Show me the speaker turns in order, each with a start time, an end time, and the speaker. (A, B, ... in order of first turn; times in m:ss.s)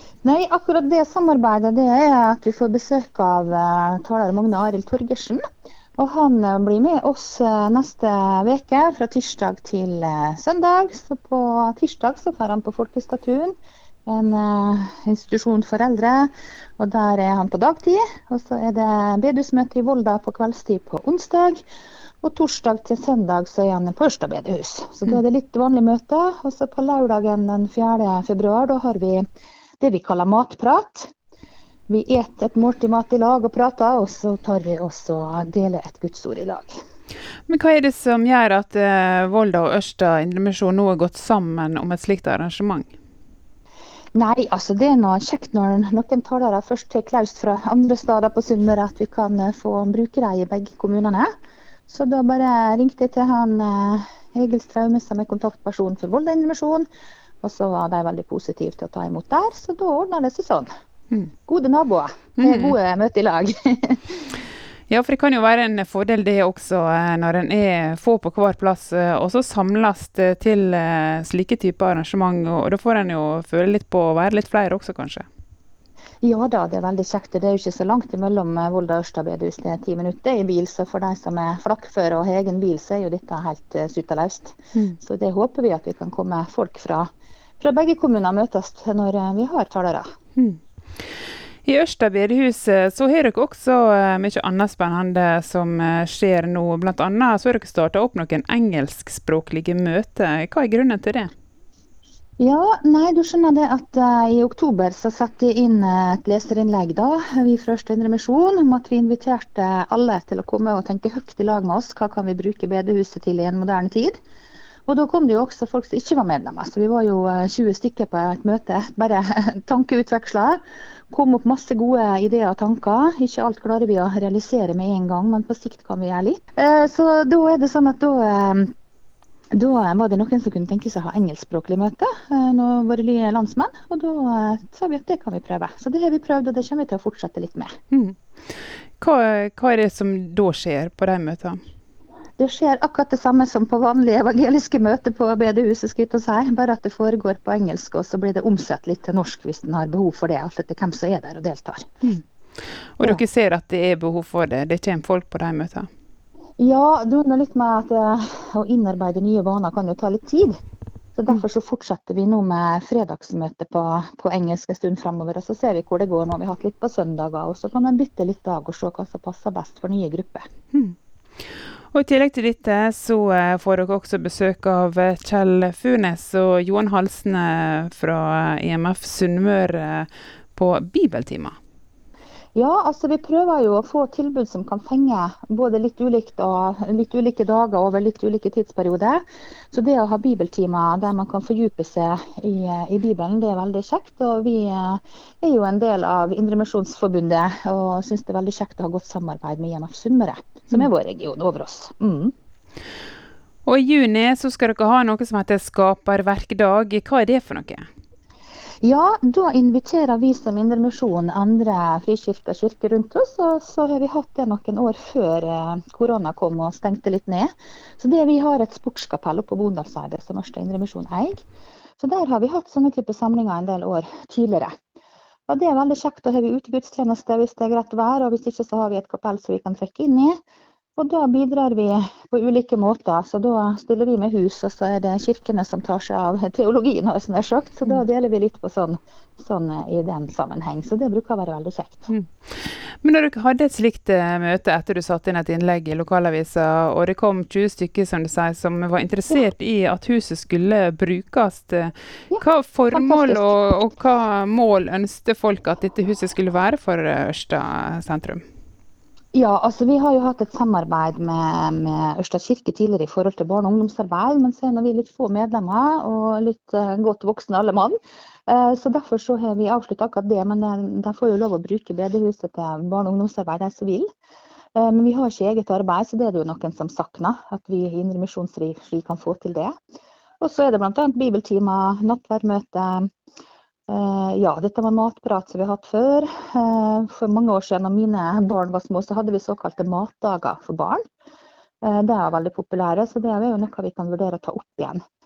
0:00.2-0:05.4 A
0:06.0-0:13.5 A
0:14.1-0:21.6 A
0:22.2-0:29.2 A
0:29.8-0:31.1 A
0:31.9-0:36.8 A
0:37.5-0:42.9 B
0:44.1-0:51.3 A
0:51.9-0:56.8 A
0:57.4-1:00.7 A
1:01.5-1:04.3 A
1:02.4-1:02.7 B
1:04.9-1:15.2 B
1:16.2-1:27.1 A
1:27.6-1:30.1 A
1:31.6-1:41.3 B
1:42.4-1:54.2 A
1:54.9-2:08.7 A
2:09.5-2:17.7 A
2:17.9-2:21.6 B
2:22.4-2:31.9 A
2:33.0-2:35.9 B
2:36.6-2:40.6 A
2:41.2-2:50.5 A
2:51.9-3:01.6 B
3:02.5-3:22.3 A
3:23.6-3:27.8 B
3:28.8-3:41.4 A
3:42.0-3:44.7 A
3:45.5-3:50.4 A
3:51.0-4:02.1 A
4:02.1-4:18.4 B
4:12.3-4:13.6 A
4:19.3-4:28.0 A
4:28.5-4:34.1 A
4:34.7-4:39.7 A
4:40.4-4:43.1 A
4:43.9-4:51.0 A
4:51.8-4:55.0 A